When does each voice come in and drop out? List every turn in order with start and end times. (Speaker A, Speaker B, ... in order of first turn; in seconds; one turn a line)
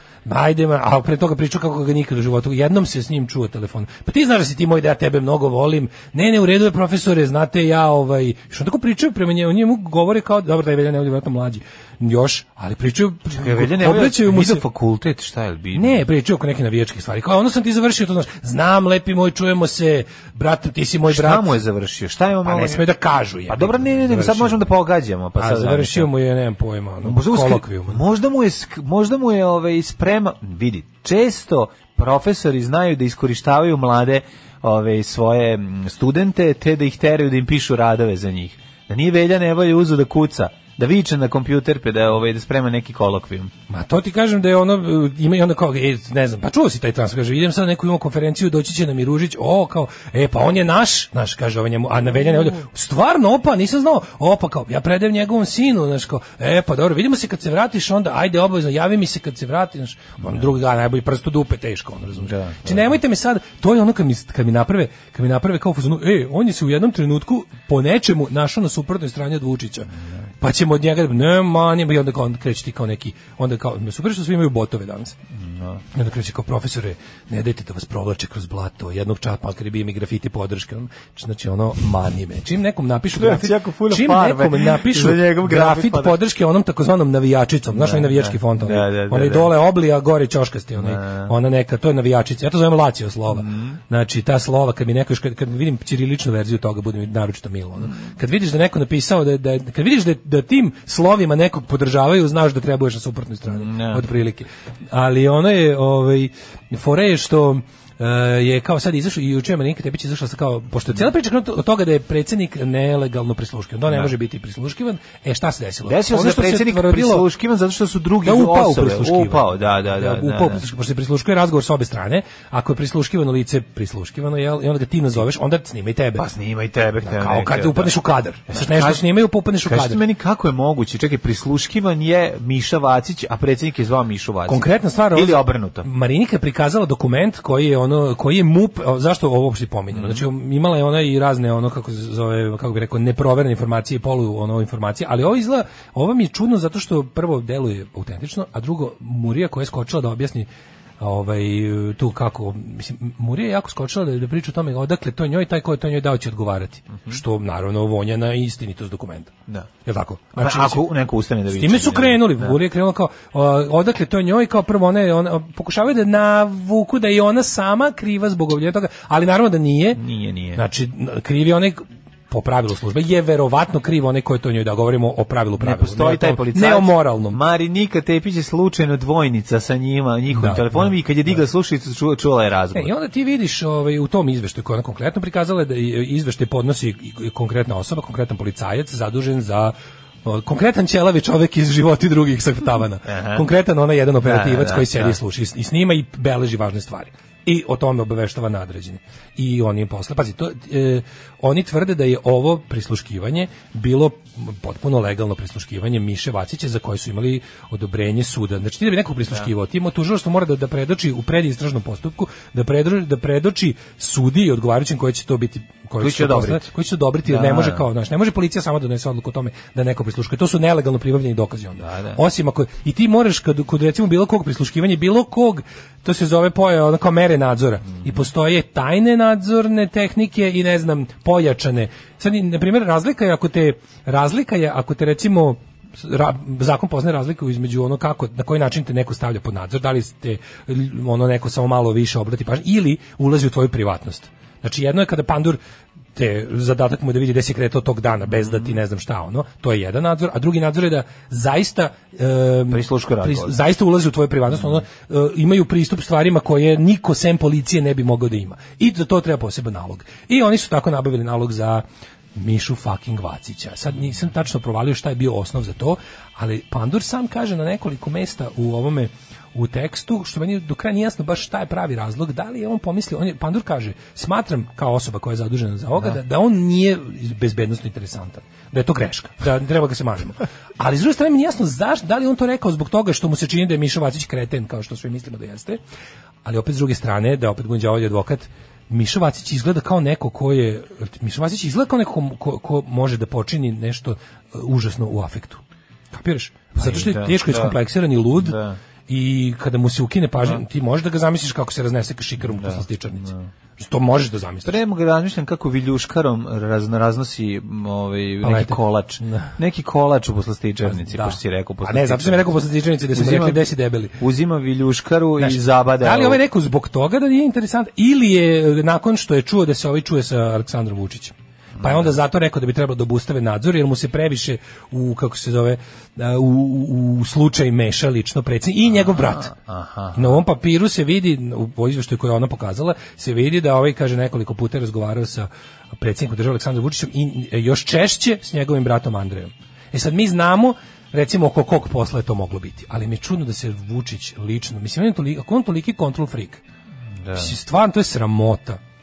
Speaker A: 0.2-14.6
Speaker B: 13.3-16.0
Speaker A: 15.7-21.6
Speaker B: 21.1-22.8
Speaker A: 22.4-24.7
Speaker B: 23.5-26.1
Speaker A: 25.4-28.0
Speaker B: 27.0-43.5
Speaker A: 43.7-75.2
Speaker B: 62.1-62.9
Speaker B: 75.3-75.8
Speaker A: 75.9-117.2
Speaker B: 83.1-86.2
Speaker B: 87.7-89.5
Speaker B: 90.8-91.3
Speaker B: 93.3-93.8
Speaker B: 103.5-104.0
Speaker B: 115.9-120.6
Speaker A: 118.2-126.2
Speaker B: 126.2-128.0
Speaker A: 127.0-130.0
Speaker B: 128.5-129.0
Speaker B: 129.6-135.9
Speaker A: 134.5-160.9
Speaker B: 139.9-140.2
Speaker B: 160.3-162.6
Speaker A: 161.5-170.0
Speaker B: 169.9-170.6
Speaker A: 170.5-177.4
Speaker B: 175.6-182.9
Speaker A: 180.3-181.4
Speaker A: 182.7-245.6
Speaker B: 193.1-193.5
Speaker B: 194.2-195.2
Speaker B: 216.0-216.7
Speaker B: 217.2-217.8
Speaker B: 221.8-222.2
Speaker A: 246.1-285.8
Speaker B: 252.7-253.5
Speaker A: 286.4-304.8
Speaker B: 296.7-297.8
Speaker B: 298.4-298.8
Speaker B: 302.4-303.5
Speaker B: 304.6-312.5
Speaker A: 308.4-309.6
Speaker A: 310.8-314.2
Speaker B: 313.1-313.6
Speaker B: 314.2-316.4
Speaker A: 315.4-329.5
Speaker B: 321.8-322.1
Speaker B: 328.9-330.4
Speaker A: 330.1-346.6
Speaker B: 347.2-347.5
Speaker A: 347.3-348.8